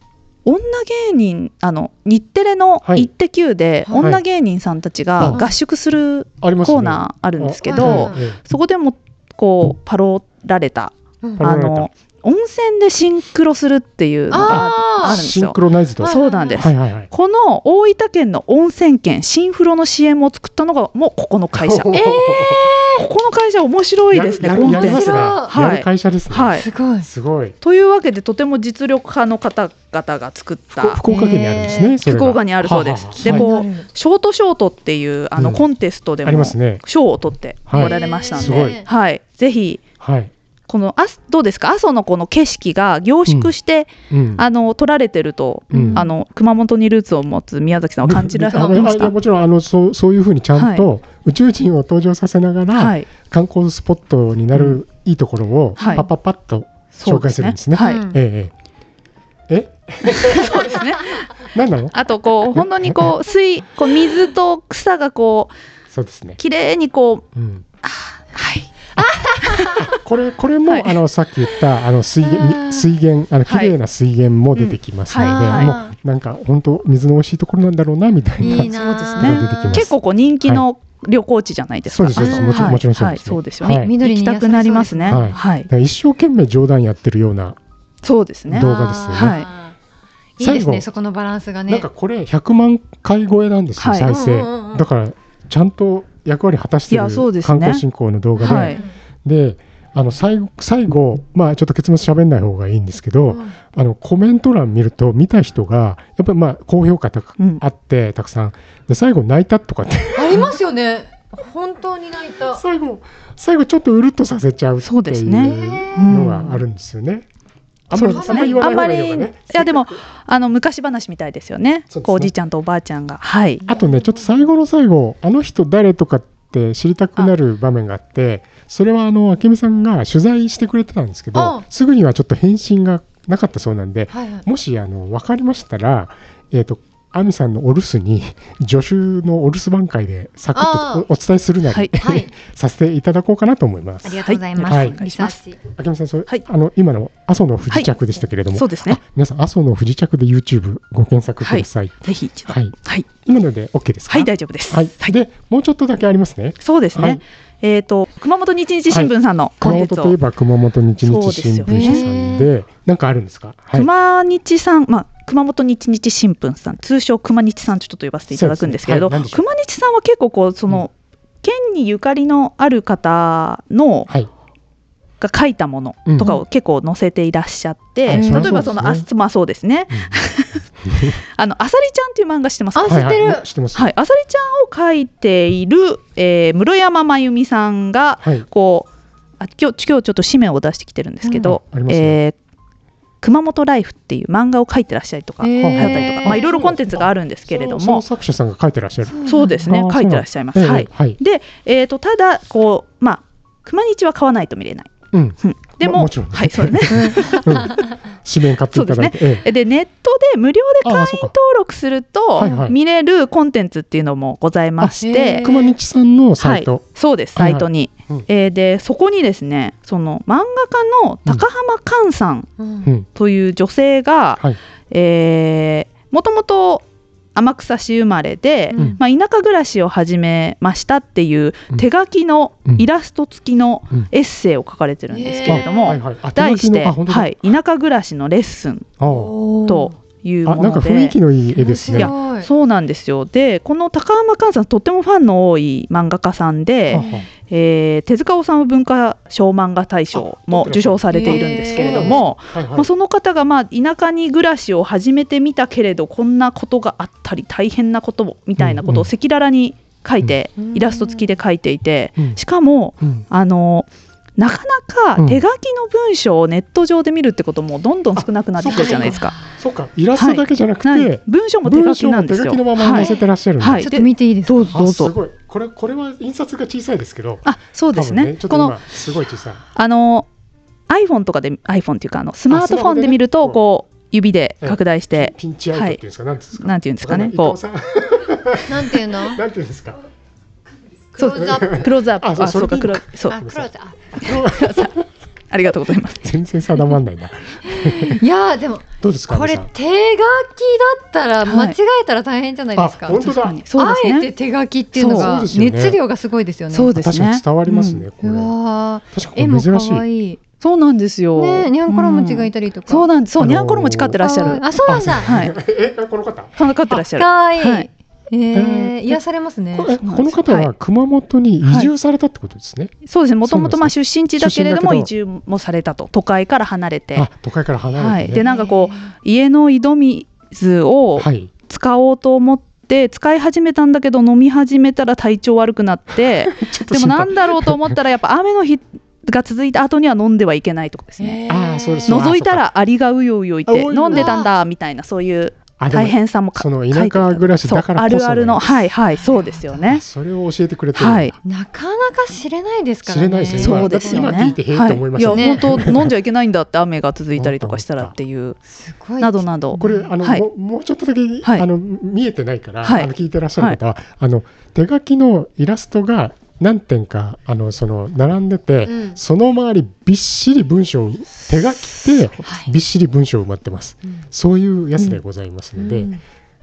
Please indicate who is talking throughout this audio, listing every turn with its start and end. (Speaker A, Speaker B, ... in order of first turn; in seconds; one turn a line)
Speaker A: 0.5-26.7
Speaker B: 2.9-3.1
Speaker C: 3.9-4.1
Speaker B: 4.0-4.2
Speaker B: 5.2-5.5
Speaker C: 5.2-5.5
Speaker B: 6.4-8.4
Speaker C: 7.7-8.2
Speaker B: 11.4-11.9
Speaker C: 14.3-15.2
Speaker B: 14.3-17.1
Speaker C: 16.0-16.7
Speaker B: 21.5-22.7
Speaker C: 21.9-22.4
Speaker B: 24.1-27.6
Speaker C: 24.5-25.6
Speaker C: 26.6-27.1
Speaker A: 27.6-31.0
Speaker B: 30.7-33.5
Speaker C: 31.1-32.0
Speaker A: 32.0-39.8
Speaker C: 33.1-33.9
Speaker B: 35.4-35.7
Speaker B: 36.2-36.9
Speaker B: 37.7-38.8
Speaker C: 37.7-38.9
Speaker B: 40.0-40.3
Speaker A: 40.7-49.1
Speaker B: 43.3-43.5
Speaker B: 44.1-44.4
Speaker B: 45.7-46.0
Speaker C: 45.7-46.1
Speaker B: 48.0-58.5
Speaker A: 50.6-50.9
Speaker A: 52.8-53.1
Speaker A: 54.5-54.8
Speaker A: 55.8-56.1
Speaker C: 55.8-56.1
Speaker A: 56.9-58.0
Speaker C: 57.8-58.2
Speaker B: 59.5-60.9
Speaker A: 60.1-65.5
Speaker B: 61.4-62.0
Speaker B: 62.5-63.2
Speaker B: 65.9-66.4
Speaker A: 66.4-67.2
Speaker B: 67.3-67.6
Speaker A: 67.8-70.0
Speaker C: 69.0-70.0
Speaker B: 69.9-80.7
Speaker A: 70.7-71.0
Speaker C: 72.2-72.9
Speaker A: 73.5-73.8
Speaker A: 74.5-75.8
Speaker C: 75.1-76.0
Speaker C: 78.4-79.9
Speaker A: 78.4-85.7
Speaker B: 81.9-83.9
Speaker C: 82.2-82.8
Speaker C: 83.7-85.4
Speaker B: 85.1-87.6
Speaker A: 88.0-89.5
Speaker B: 88.5-89.5
Speaker C: 88.5-89.8
Speaker C: 90.4-91.9
Speaker B: 90.4-90.9
Speaker B: 91.7-110.5
Speaker A: 93.8-94.1
Speaker C: 94.1-94.8
Speaker A: 96.9-97.8
Speaker C: 98.4-99.0
Speaker A: 98.4-98.8
Speaker C: 103.3-103.6
Speaker C: 110.2-112.6
Speaker B: 112.5-117.3
Speaker A: 114.8-116.7
Speaker C: 115.4-116.2
Speaker B: 117.9-120.0
Speaker C: 117.9-118.8
Speaker A: 117.9-123.7
Speaker B: 121.9-122.3
Speaker B: 123.7-145.0
Speaker C: 123.7-124.5
Speaker C: 131.3-131.7
Speaker C: 134.1-134.5
Speaker C: 140.6-141.1
Speaker A: 141.7-141.9
Speaker C: 142.0-142.3
Speaker C: 144.0-145.6
Speaker A: 144.2-145.4
Speaker B: 145.6-157.2
Speaker A: 148.5-149.0
Speaker A: 151.4-153.1
Speaker A: 154.1-155.1
Speaker A: 156.6-160.2
Speaker B: 158.9-163.9
Speaker A: 161.0-162.1
Speaker C: 161.7-162.5
Speaker A: 163.7-174.1
Speaker B: 168.3-169.4
Speaker A: 175.2-180.6
Speaker B: 176.1-176.4
Speaker B: 178.1-179.1
Speaker C: 178.1-178.7
Speaker B: 179.9-180.2
Speaker B: 180.8-181.2
Speaker A: 181.3-183.1
Speaker C: 182.8-183.5
Speaker B: 182.8-183.9
Speaker A: 183.8-188.9
Speaker B: 188.2-188.5
Speaker A: 189.4-192.4
Speaker B: 191.3-192.2
Speaker A: 193.2-198.1
Speaker C: 195.4-196.5
Speaker B: 195.6-201.2
Speaker C: 199.1-199.7
Speaker A: 199.2-204.9
Speaker B: 205.1-209.5
Speaker A: 205.4-207.8
Speaker C: 206.9-207.9
Speaker A: 208.7-215.5
Speaker B: 210.8-211.3
Speaker C: 212.4-212.7
Speaker B: 212.4-212.8
Speaker B: 214.8-218.3
Speaker C: 215.0-215.8
Speaker A: 216.4-222.5
Speaker C: 222.6-222.9
Speaker A: 223.1-238.9
Speaker C: 228.7-229.0
Speaker B: 228.7-229.0
Speaker C: 235.1-236.0
Speaker B: 235.4-237.6
Speaker B: 239.0-239.3
Speaker C: 239.1-239.9
Speaker A: 239.7-241.2
Speaker B: 240.4-242.1
Speaker C: 241.6-242.5
Speaker A: 241.9-269.4
Speaker B: 246.9-247.3
Speaker C: 246.9-247.3
Speaker B: 250.1-252.9
Speaker C: 251.1-252.2
Speaker B: 258.6-259.1
Speaker C: 260.6-261.3
Speaker B: 265.2-265.4
Speaker B: 268.2-273.9
Speaker C: 268.7-269.6
Speaker A: 270.1-275.1
Speaker C: 272.9-273.3
Speaker C: 273.8-274.8
Speaker B: 274.7-279.6
Speaker A: 277.4-278.9
Speaker A: 279.8-280.3
Speaker A: 280.9-286.0
Speaker B: 282.5-283.6
Speaker B: 284.6-290.0
Speaker A: 286.6-287.6
Speaker C: 288.7-289.4
Speaker C: 291.1-291.9
Speaker A: 291.2-293.4
Speaker B: 291.2-295.0
Speaker C: 293.3-294.4
Speaker A: 294.2-294.9
Speaker A: 295.5-296.3
Speaker B: 296.2-298.2
Speaker C: 297.6-306.9
Speaker B: 299.0-299.7
Speaker A: 301.4-301.8
Speaker B: 302.8-303.6
Speaker A: 303.1-304.3
Speaker A: 304.9-305.4
Speaker B: 305.1-306.0
Speaker A: 306.7-308.1
Speaker B: 306.9-308.6
Speaker C: 308.2-310.4
Speaker B: 309.1-310.1
Speaker A: 310.6-314.7
Speaker C: 311.4-313.1
Speaker B: 313.4-314.2
Speaker C: 314.2-315.4
Speaker B: 314.8-316.5
Speaker A: 315.2-315.5
Speaker A: 316.6-317.9
Speaker C: 316.9-319.9
Speaker B: 318.5-319.2
Speaker B: 319.7-325.1
Speaker A: 320.0-320.7
Speaker A: 321.6-321.9
Speaker A: 323.1-327.3
Speaker B: 327.1-328.4
Speaker A: 327.9-341.4
Speaker C: 328.4-329.1
Speaker B: 331.2-331.5
Speaker B: 336.2-338.0
Speaker C: 341.2-342.3
Speaker B: 341.5-342.7
Speaker A: 342.1-350.0
Speaker B: 343.7-344.3
Speaker C: 344.1-344.5
Speaker B: 345.8-348.8
Speaker C: 349.2-349.9
Speaker B: 349.8-351.4
Speaker A: 351.0-351.4
Speaker C: 351.4-354.5
Speaker B: 353.1-356.2
Speaker A: 353.5-358.6
Speaker C: 355.2-355.8
Speaker B: 357.4-358.1
Speaker C: 358.7-360.1
Speaker A: 359.2-360.5
Speaker B: 359.8-376.1
Speaker A: 362.8-363.8
Speaker C: 368.9-369.2
Speaker A: 371.5-372.4
Speaker A: 375.8-376.2